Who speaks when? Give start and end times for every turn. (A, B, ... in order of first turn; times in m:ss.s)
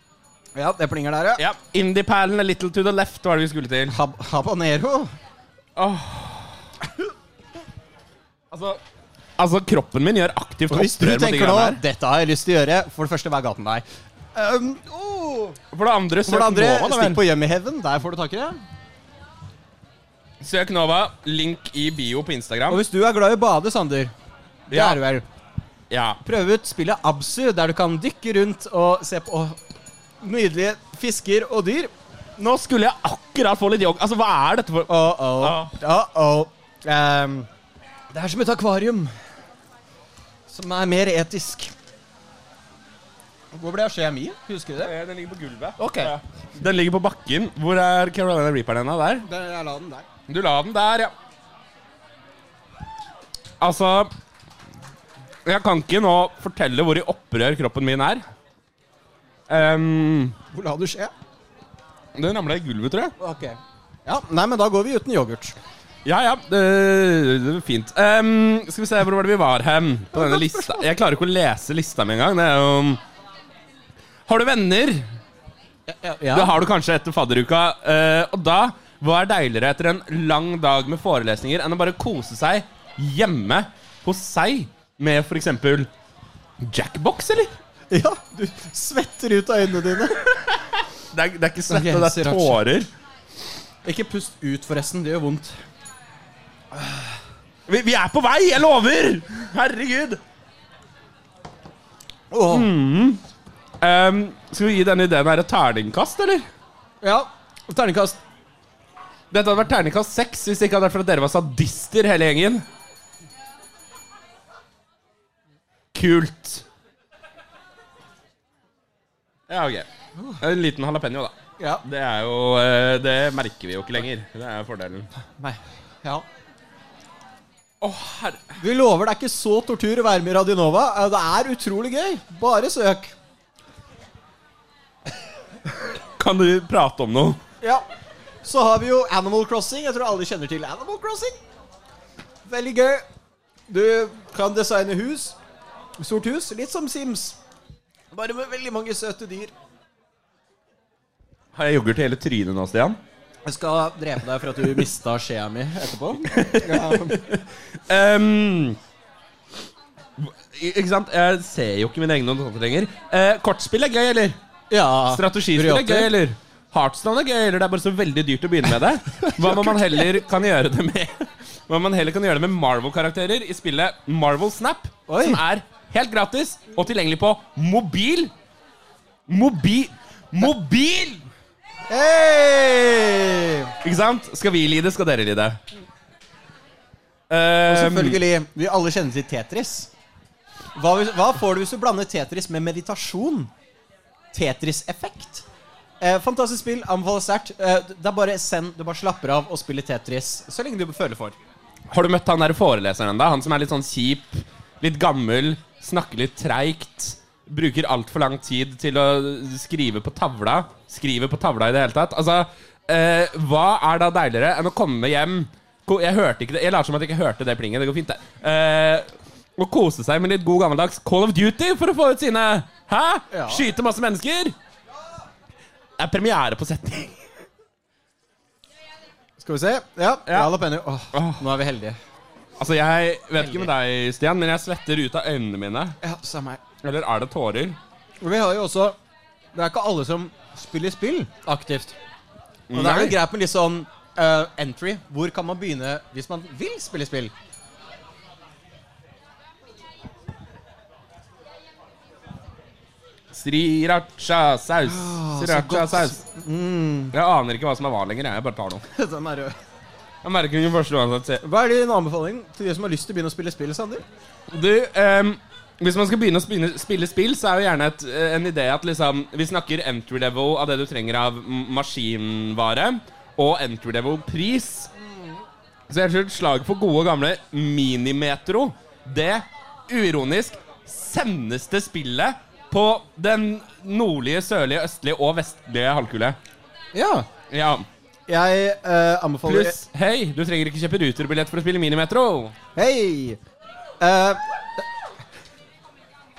0:00.6-0:01.4 A
0:01.4-0:04.0 B
0:03.9-0:05.1 A
0:05.8-0:06.6 B
0:08.5-0:08.8 B
0:09.4-0:11.8 B
0:10.7-0:15.6 A
0:15.7-0:17.2 B
0:16.3-0:18.6 A
0:20.4-0:22.8 B
0:22.7-0:24.1 A
0:24.7-0:25.0 B
0:24.7-0:25.3 A
0:25.9-0:26.2 B
0:26.2-0:29.6 A
0:30.2-0:31.9 A
0:32.4-0:35.8 B
0:34.9-0:37.5 A
0:38.1-0:39.1 A
0:40.5-0:41.7 A
0:43.5-0:44.9 A
0:44.8-0:49.3 B
0:45.8-0:46.2 A
0:49.2-0:50.1 A
0:50.3-0:51.1 B
0:53.6-0:54.1 B
0:55.4-0:58.2 B
0:59.5-1:00.4 B
1:00.5-1:01.1 A
1:02.2-1:03.2 B
1:03.2-1:05.6 A
1:06.0-1:13.0 B
1:10.1-1:10.9 A
1:14.3-1:15.1 B
1:15.9-1:16.6 A
1:16.3-1:25.9 B
1:26.6-1:27.6 B
1:27.9-1:30.2 A
1:30.1-1:32.9 B
1:31.7-1:32.6 A
1:33.8-1:35.6 A
1:36.7-1:37.0 A
1:37.7-1:40.2 B
1:42.3-1:42.7 A
1:42.5-1:43.2 B
1:43.8-1:46.5 B
1:47.0-1:48.2 A
1:49.3-1:52.6 B
1:55.9-1:56.6 B
1:59.5-1:59.9 B
2:00.4-2:05.1 B
2:01.6-2:01.8 A
2:05.4-2:06.2 A
2:07.8-2:08.5 B
2:08.6-2:13.1 A
2:15.8-2:17.4 B
2:18.4-2:21.4 A
2:22.4-2:23.0 A
2:23.7-2:25.4 A
2:26.0-2:27.4 A
2:28.1-2:29.5 A
2:31.5-2:33.0 B
2:33.4-2:37.2 A
2:36.3-2:38.8 B
2:40.2-2:44.4 B
2:44.7-2:46.1 A
2:45.1-2:58.3 B
2:49.2-2:50.1 A
2:55.1-2:55.4 A
2:59.3-3:01.2 B
3:01.9-3:03.7 A
3:03.8-3:05.6 B
3:07.3-3:08.2 B
3:07.7-3:09.9 A
3:10.8-3:13.5 A
3:14.3-3:15.4 A
3:16.0-3:21.4 A
3:21.9-3:44.6 B
3:43.3-3:43.6 A
3:46.0-3:47.2 B
3:49.4-3:52.0 A
3:50.3-3:50.5 B
3:51.1-3:51.4 B
3:52.6-3:56.0 B
3:53.4-3:53.7 A
3:56.0-3:56.6 A
3:56.8-3:57.8 B
3:58.2-3:59.0 A
3:59.5-4:02.0 A
4:02.7-4:03.2 B
4:02.7-4:07.3 A
4:13.3-4:16.2 B
4:14.9-4:17.1 A
4:17.1-4:18.8 B
4:18.9-4:19.5 A
4:20.2-4:21.4 B
4:21.4-4:24.0 A
4:24.5-4:34.9 B
4:35.9-4:46.4 B
4:46.9-4:47.3 A
4:47.5-4:47.9 B
4:48.3-4:49.8 A
4:49.5-4:52.6 B
4:52.8-4:53.4 A
4:54.0-4:54.8 A